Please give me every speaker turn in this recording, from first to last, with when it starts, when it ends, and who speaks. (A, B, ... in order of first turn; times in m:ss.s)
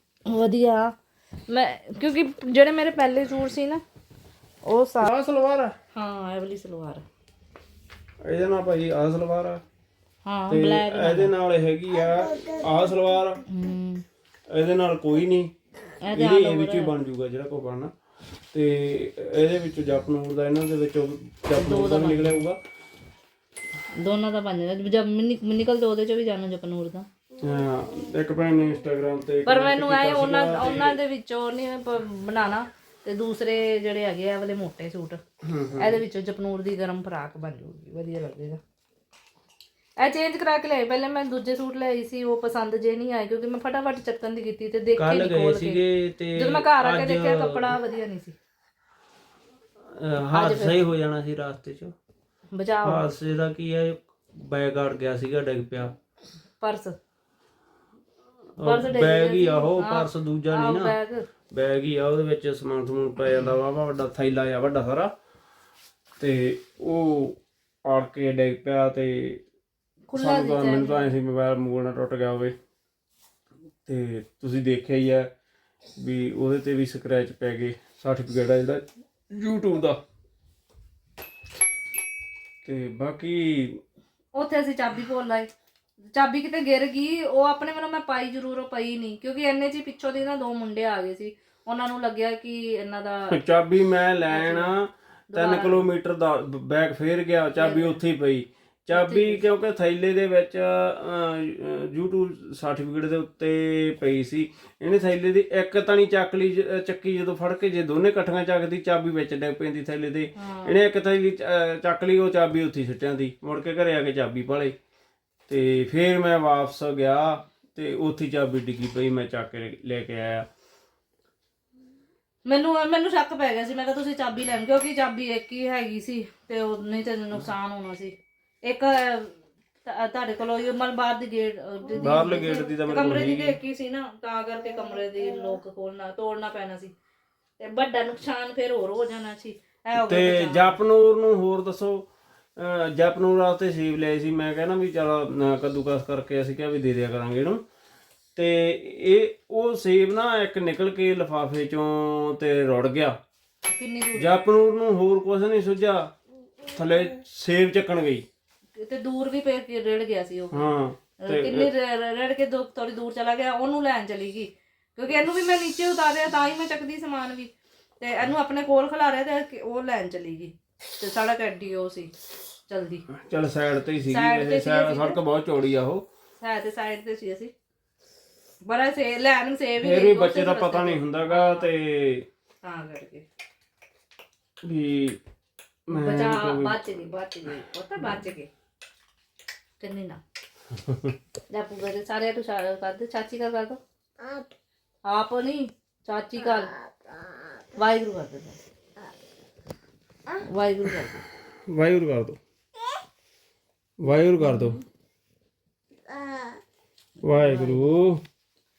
0:00.3-0:00.9 A
0:01.5-0:03.8 A
0:04.6-0:05.1 A
0:05.0-0:05.7 B
0:05.9-0:07.0 A
0:08.2-0:09.6 B
0:10.2-0:11.3 A
0:10.5-0:13.4 B
0:13.5-0:14.0 A
0:14.5-0:15.5 B
0:16.0-0:16.9 A
0:16.1-0:17.9 B
0:18.5-0:22.6 B
0:21.5-0:22.4 A
0:24.0-0:27.1 A
0:27.4-0:31.0 B
0:29.4-0:35.2 A
0:35.4-0:36.0 B
0:35.8-0:38.6 A
0:40.0-0:45.8 A
0:45.0-0:47.8 B
0:46.3-0:48.4 A
0:50.0-0:51.9 B
0:50.3-0:50.8 A
0:52.5-0:53.1 A
0:52.8-0:55.9 B
0:56.6-0:57.0 A
0:58.6-1:01.0 B
0:58.6-1:01.2 A
1:01.5-1:05.1 B
1:06.2-1:09.4 B
1:10.1-1:11.1 A
1:10.2-1:12.5 B
1:13.8-1:15.3 B
1:16.0-1:20.0 B
1:22.6-1:23.8 B
1:24.3-1:25.5 A
1:26.1-1:33.3 A
1:33.3-1:54.7 B
1:34.3-1:34.7 A
1:35.3-1:35.9 A
1:37.6-1:38.0 A
1:38.9-1:39.4 A
1:50.4-1:50.8 A
1:55.5-2:00.5 B
2:02.4-2:09.3 A
2:09.8-2:16.9 A
2:12.0-2:13.6 B
2:17.6-2:20.7 A
2:20.0-2:27.6 B
2:28.4-2:33.2 B
2:33.7-2:34.4 A
2:34.2-2:36.1 B
2:36.7-2:38.2 B
2:38.8-2:52.1 A
2:40.5-2:41.7 B
2:52.7-2:53.0 A
2:53.1-2:56.0 B
2:54.1-2:55.2 A
2:56.4-2:57.5 A
2:58.6-3:01.7 A
2:59.8-3:02.2 B
3:02.6-3:03.2 A
3:04.6-3:05.2 B
3:05.9-3:06.8 B
3:05.9-3:08.5 A
3:09.8-3:10.2 A
3:11.5-3:13.8 A
3:15.0-3:16.8 A
3:17.8-3:18.6 A
3:20.4-3:21.2 A
3:21.7-3:22.4 B
3:24.0-3:24.8 B
3:24.4-3:24.8 A
3:27.2-3:28.2 B
3:27.3-3:27.9 A